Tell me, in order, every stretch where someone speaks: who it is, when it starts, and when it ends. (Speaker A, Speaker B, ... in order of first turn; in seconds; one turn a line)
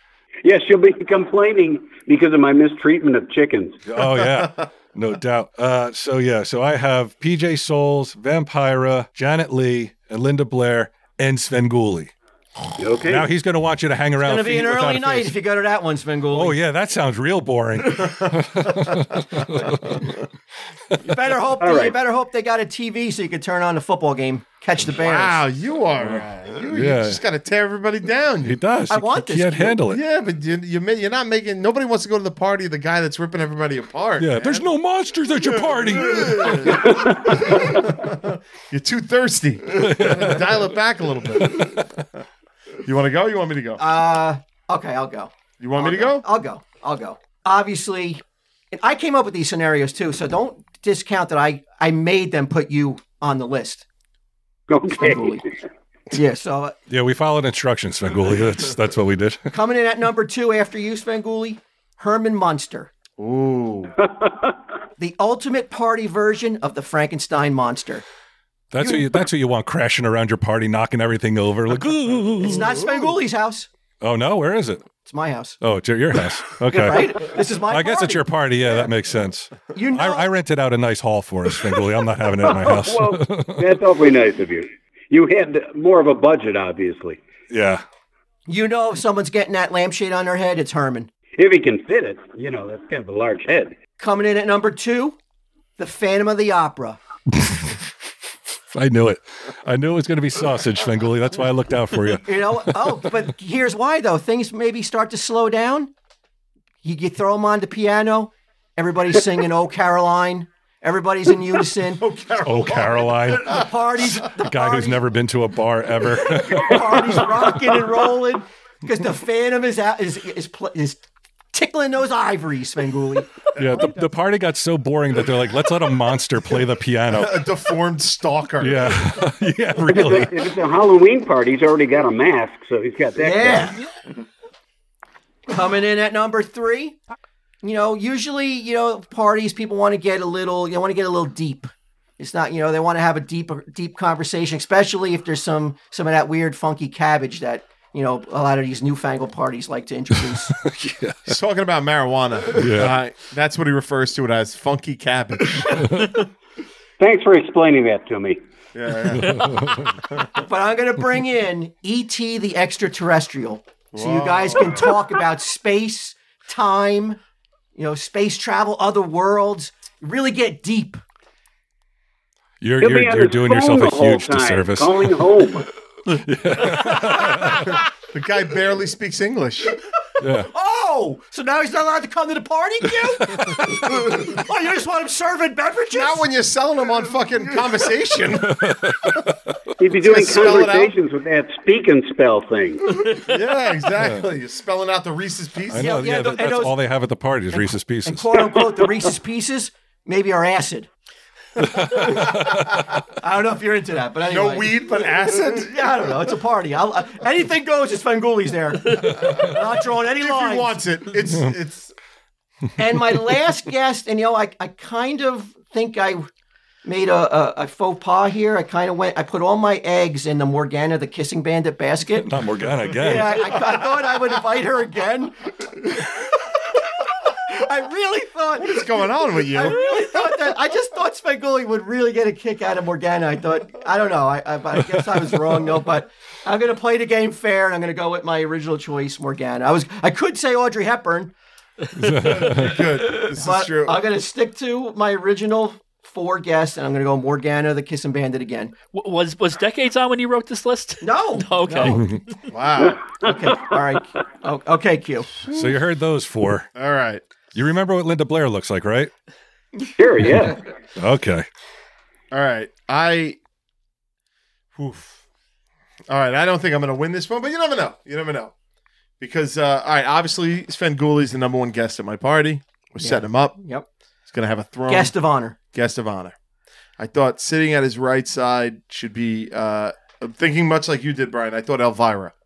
Speaker A: 0.4-3.8
Speaker B: 3.9-12.1
Speaker A: 12.8-13.3
Speaker B: 13.0-15.3
Speaker C: 14.2-16.6
Speaker B: 16.3-20.2
Speaker C: 21.0-25.4
Speaker A: 21.6-22.0
Speaker D: 24.9-28.6
Speaker B: 26.0-27.2
Speaker B: 28.4-30.0
Speaker C: 28.9-29.8
Speaker D: 29.9-34.7
Speaker B: 34.2-36.9
Speaker D: 35.4-41.9
Speaker A: 36.8-37.7
Speaker B: 39.8-40.6
Speaker B: 41.4-41.9
Speaker D: 42.8-43.8
Speaker C: 43.8-53.9
Speaker D: 45.6-46.2
Speaker A: 54.7-55.5
Speaker C: 54.9-55.4
Speaker C: 56.1-56.8
Speaker B: 56.9-59.4
Speaker C: 59.5-62.9
Speaker D: 63.2-63.9
Speaker A: 64.0-64.5
Speaker C: 65.0-68.0
Speaker B: 68.7-72.7
Speaker C: 68.8-69.1
Speaker C: 72.4-73.7
Speaker B: 74.0-74.9
Speaker C: 75.0-75.6
Speaker B: 75.6-83.8
Speaker C: 76.7-78.3
Speaker C: 79.7-80.3
Speaker A: 82.4-87.2
Speaker B: 87.5-87.8
Speaker C: 88.5-91.1
Speaker A: 91.3-93.8
Speaker C: 94.0-95.2
Speaker C: 95.8-97.0
Speaker B: 98.7-102.8
Speaker C: 102.2-105.9
Speaker C: 106.8-112.0
Speaker D: 112.0-113.6
Speaker B: 112.4-113.7
Speaker C: 113.5-115.0
Speaker B: 114.2-117.2
Speaker C: 116.3-121.0
Speaker C: 121.5-123.3
Speaker B: 123.6-127.4
Speaker D: 123.6-123.9
Speaker D: 127.1-129.1
Speaker B: 128.6-130.4
Speaker A: 129.9-133.8
Speaker C: 133.2-133.8
Speaker C: 135.5-137.0
Speaker C: 137.6-150.6
Speaker B: 150.6-151.3
Speaker D: 151.3-155.8
Speaker B: 152.5-153.0
Speaker B: 155.7-156.1
Speaker A: 157.0-158.4
Speaker D: 158.7-159.8
Speaker B: 159.2-160.0
Speaker C: 160.4-167.2
Speaker D: 163.9-164.9
Speaker C: 167.8-171.0
Speaker B: 172.6-175.5
Speaker A: 172.8-175.7
Speaker B: 176.1-177.8
Speaker D: 178.0-179.8
Speaker B: 180.2-180.5
Speaker C: 180.5-186.3
Speaker B: 183.3-183.7
Speaker D: 185.9-188.7
Speaker B: 188.5-189.3
Speaker A: 189.8-193.0
Speaker D: 190.0-190.9
Speaker D: 193.2-195.9
Speaker B: 195.7-198.5
Speaker C: 195.8-196.8
Speaker C: 197.6-200.9
Speaker B: 201.6-202.8
Speaker C: 203.2-204.9
Speaker D: 204.3-206.0
Speaker C: 205.5-210.8
Speaker D: 210.2-211.9
Speaker C: 212.8-216.3
Speaker C: 216.8-222.3
Speaker B: 222.2-223.6
Speaker C: 222.9-226.3
Speaker C: 227.2-241.3
Speaker D: 228.6-230.1
Speaker B: 242.0-242.8
Speaker D: 242.0-244.0
Speaker C: 243.0-248.7
Speaker E: 248.9-252.1
Speaker C: 251.0-252.0
Speaker D: 252.5-253.0
Speaker A: 252.8-253.6
Speaker C: 253.2-255.3
Speaker B: 255.5-256.7
Speaker D: 255.5-255.8
Speaker D: 256.8-257.3
Speaker B: 257.5-259.1
Speaker A: 260.0-260.6
Speaker B: 261.0-261.5
Speaker D: 262.3-263.4
Speaker D: 264.8-265.2
Speaker D: 266.1-268.5
Speaker D: 269.2-273.6
Speaker C: 273.0-273.9
Speaker D: 274.3-275.1
Speaker C: 274.9-275.6
Speaker D: 275.7-276.4
Speaker D: 277.0-282.3